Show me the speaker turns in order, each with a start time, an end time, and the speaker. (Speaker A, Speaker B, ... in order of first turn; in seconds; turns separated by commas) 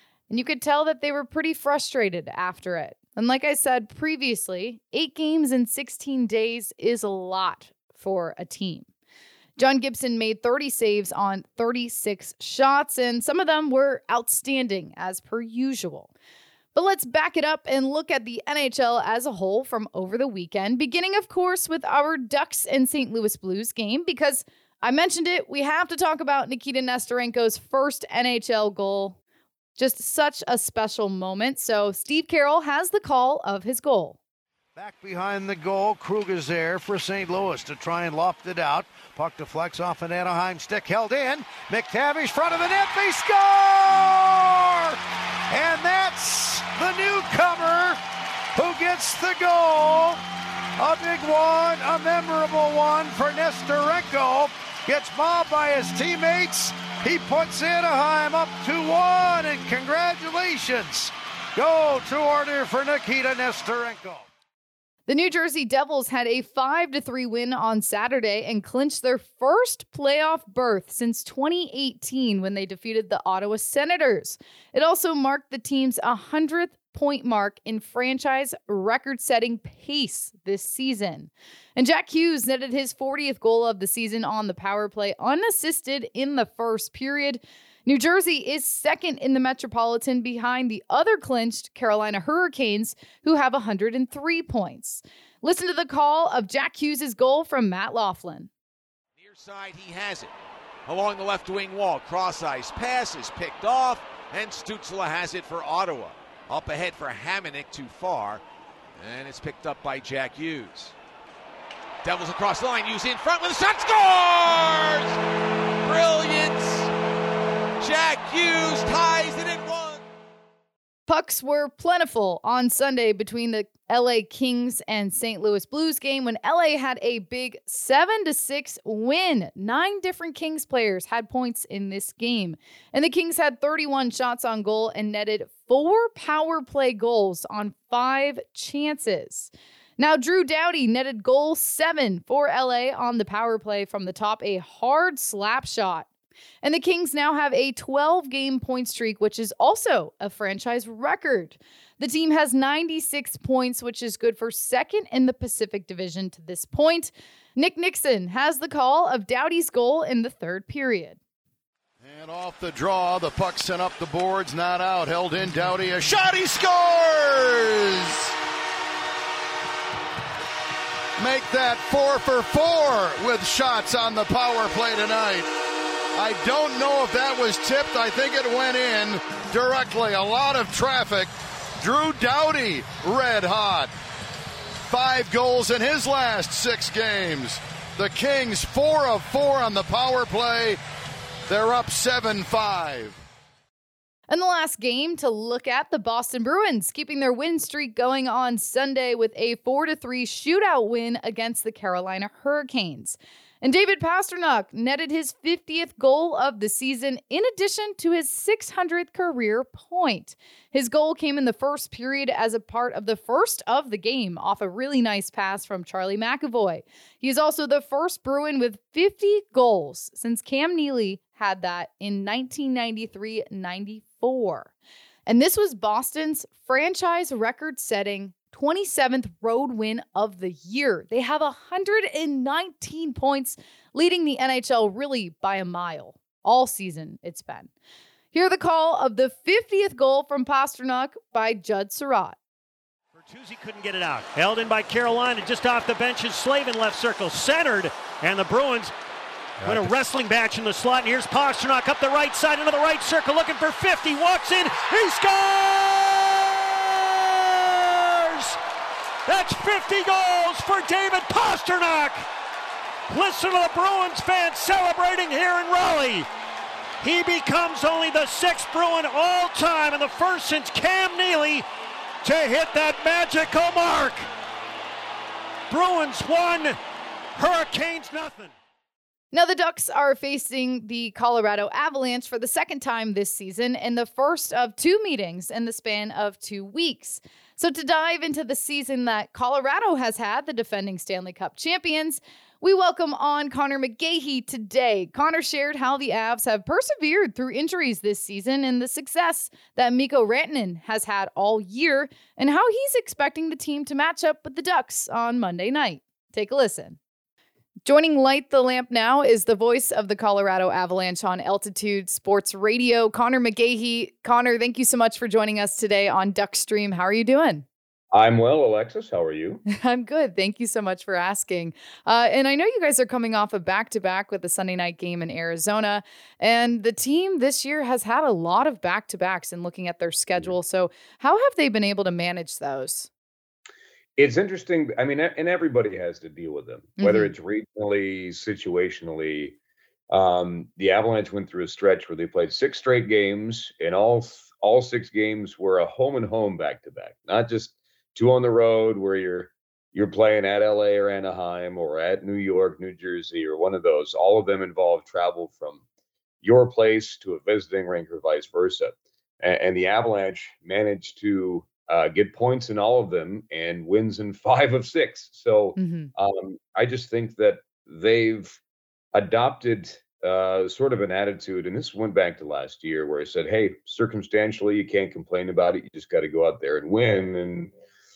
Speaker A: 0.3-8.9, Speaker A: 9.6-16.1, Speaker A: 16.7-29.2, Speaker A: 29.8-34.2, Speaker B: 34.8-45.0, Speaker B: 45.5-48.0, Speaker B: 48.5-50.2, Speaker B: 50.8-64.3, Speaker A: 65.1-98.5, Speaker C: 99.2-100.3, Speaker C: 100.8-108.4, Speaker C: 109.0-110.9, Speaker C: 112.0-115.2, Speaker C: 115.8-116.9, Speaker C: 117.8-120.0, Speaker A: 121.1-146.1, Speaker A: 146.6-161.2, Speaker D: 162.0-168.3, Speaker D: 171.2-175.5, Speaker D: 176.1-183.9, Speaker D: 184.8-190.8, Speaker D: 191.5-193.2, Speaker A: 194.3-224.7, Speaker A: 225.2-237.7, Speaker A: 238.3-242.4, Speaker E: 243.1-248.9, Speaker E: 249.6-258.6, Speaker E: 259.2-262.2, Speaker E: 263.1-266.3, Speaker E: 267.0-271.6, Speaker E: 272.2-274.3, Speaker E: 275.7-276.8, Speaker E: 277.4-278.5, Speaker A: 279.3-307.0, Speaker A: 307.9-317.6, Speaker F: 318.1-319.6, Speaker A: 319.7-333.1, Speaker F: 334.2-339.6, Speaker A: 337.0-337.3, Speaker F: 340.1-355.8, Speaker F: 356.4-368.6, Speaker A: 365.8-366.1, Speaker F: 369.1-377.7